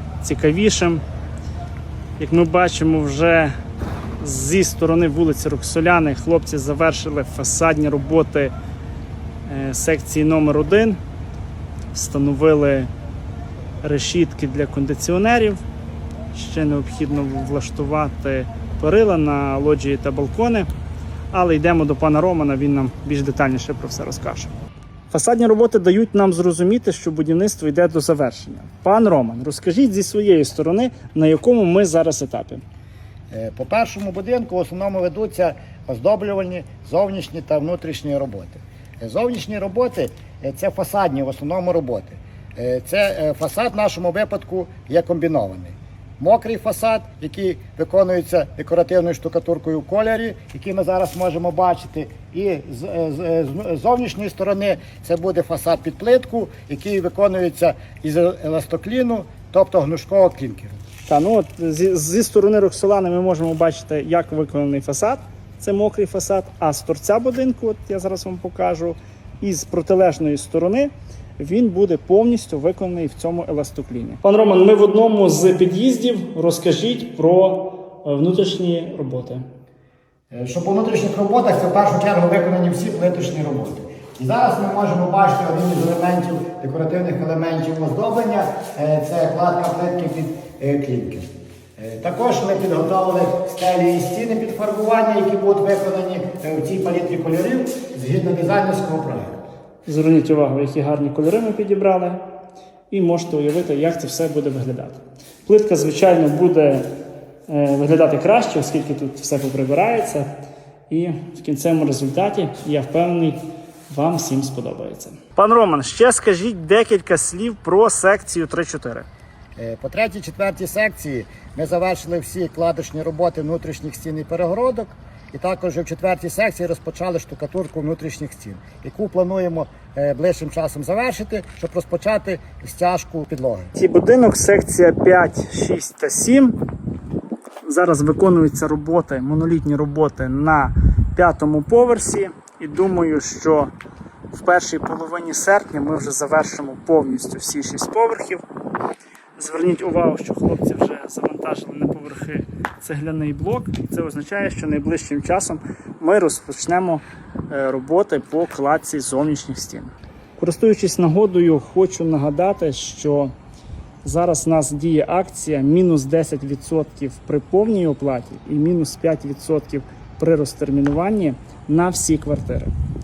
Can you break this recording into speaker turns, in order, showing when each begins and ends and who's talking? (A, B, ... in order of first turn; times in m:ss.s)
0:00.2-0:01.0 A
0:02.2-0:03.5 A
0:04.2-0:08.5 A
0:09.5-0:11.0 A
0:11.9-0:12.9 A
0:13.8-0:15.6 A
0:16.3-0:20.7 A
0:21.3-0:24.5 A
0:25.1-0:32.6 A
0:33.3-1:00.8 B
1:01.1-1:19.4 A
1:20.3-1:39.4 B
1:39.9-1:42.2 A
1:42.9-1:46.9 A
1:47.5-1:50.4 A
1:50.9-1:53.4 A
1:53.9-1:59.1 A
1:59.6-2:13.8 B
2:13.8-2:16.6 A
2:17.7-2:23.7 A
2:24.3-2:28.4 A
2:29.4-2:43.3 A
2:44.0-2:52.7 A